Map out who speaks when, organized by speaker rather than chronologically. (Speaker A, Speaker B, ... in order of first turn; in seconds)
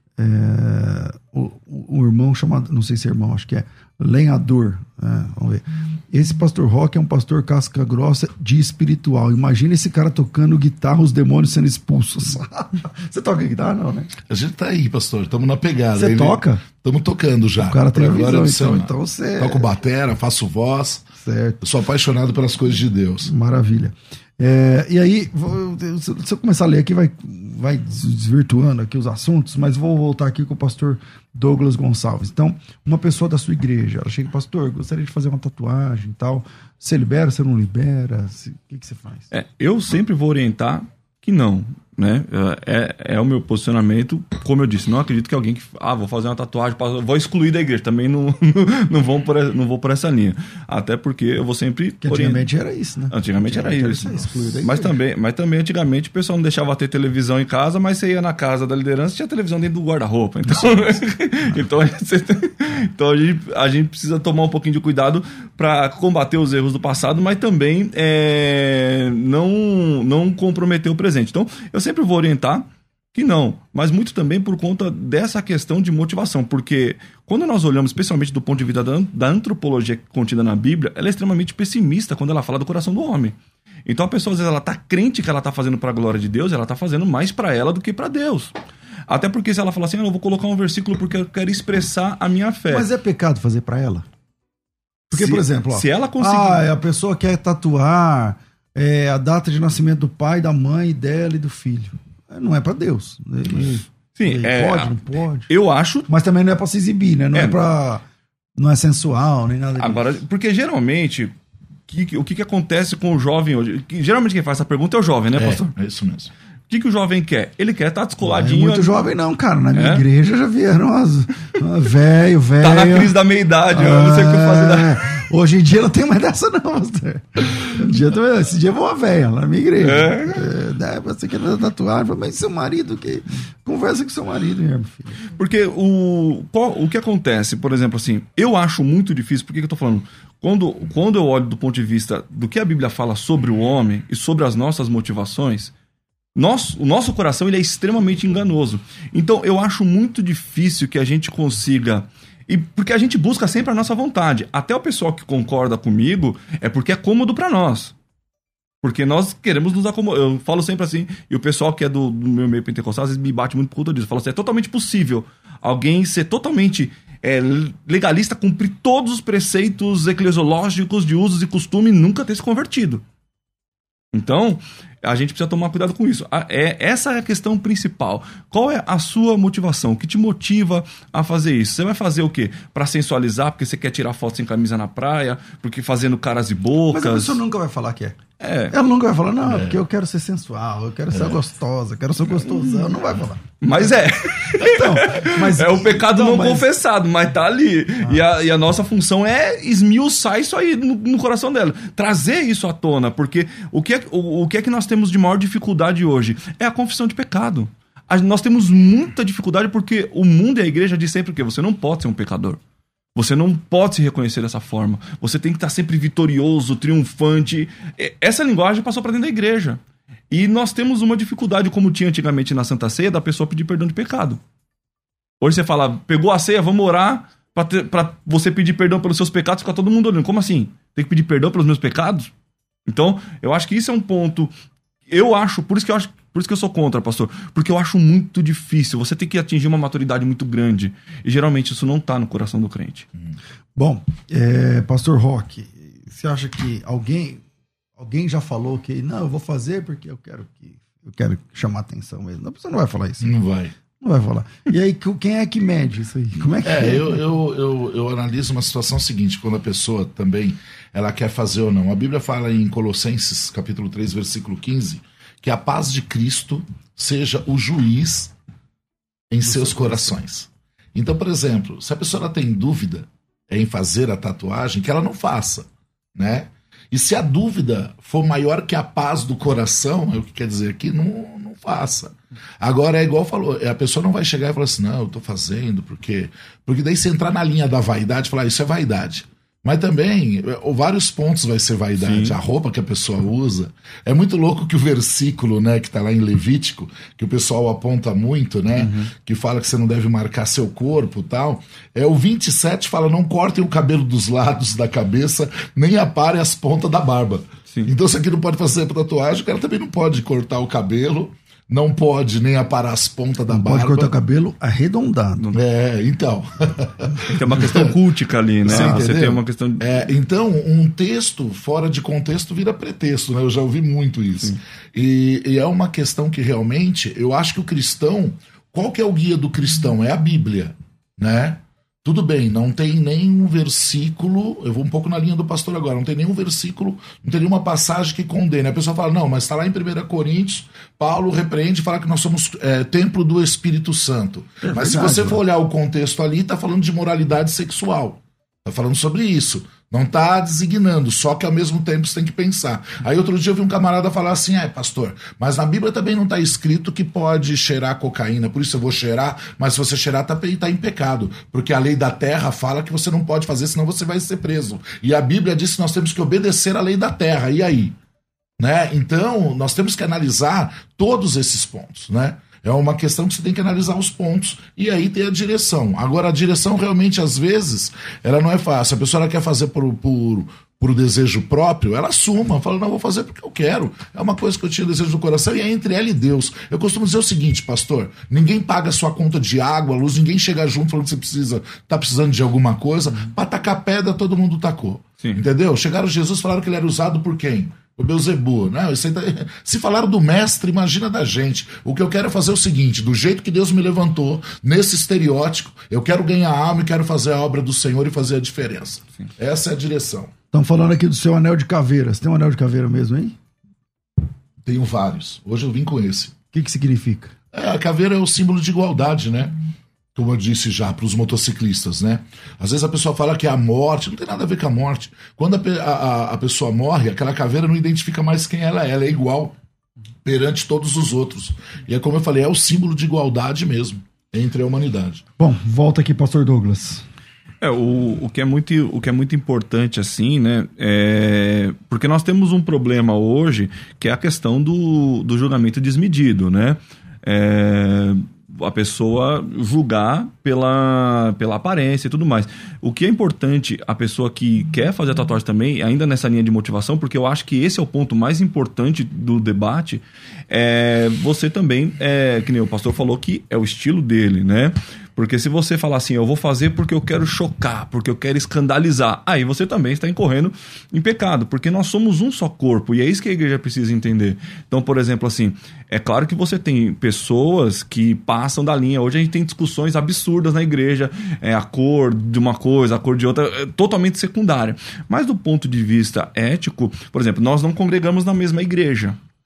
Speaker A: 0.2-14.1, 15.9-16.6, 17.6-19.7, 21.2-21.6, 23.2-39.3, 52.0-54.9, 92.7-94.0, 95.1-105.5, 106.1-108.0, 108.5-110.1, 118.2-123.1, 123.7-135.2, 186.9-188.2, 188.7-193.4, 194.5-196.7, 243.7-247.4, 248.0-253.3, 254.0-257.2, 269.4-270.1, 313.5-315.4, 318.7-319.0, 344.6-345.4, 410.5-413.4, 416.5-417.3, 435.4-437.0
Speaker B: 14.3-21.0, 21.6-23.3, 115.4-116.3, 189.4-189.8, 191.1-191.4, 253.2-253.7, 256.6-268.3, 269.3-314.1, 315.5-317.9, 318.6-367.9, 368.6-410.3, 414.6-416.3, 417.5-419.6, 420.1-429.5, 430.2-435.2
Speaker C: 39.3-52.5, 53.1-88.5, 89.1-92.9, 95.1-96.7, 104.2-104.9, 105.5-106.1, 109.8-111.3, 111.9-115.7, 116.7-119.0, 119.7-120.0, 122.6-125.0, 129.8-130.4, 135.3-145.7, 146.3-157.9, 158.8-173.0, 174.1-187.4, 188.4-188.7, 193.6-212.6, 213.1-224.4, 225.4-232.3, 232.9-234.5, 235.1-243.1, 292.0-292.4, 298.8-299.1, 317.3-319.8, 437.6-489.2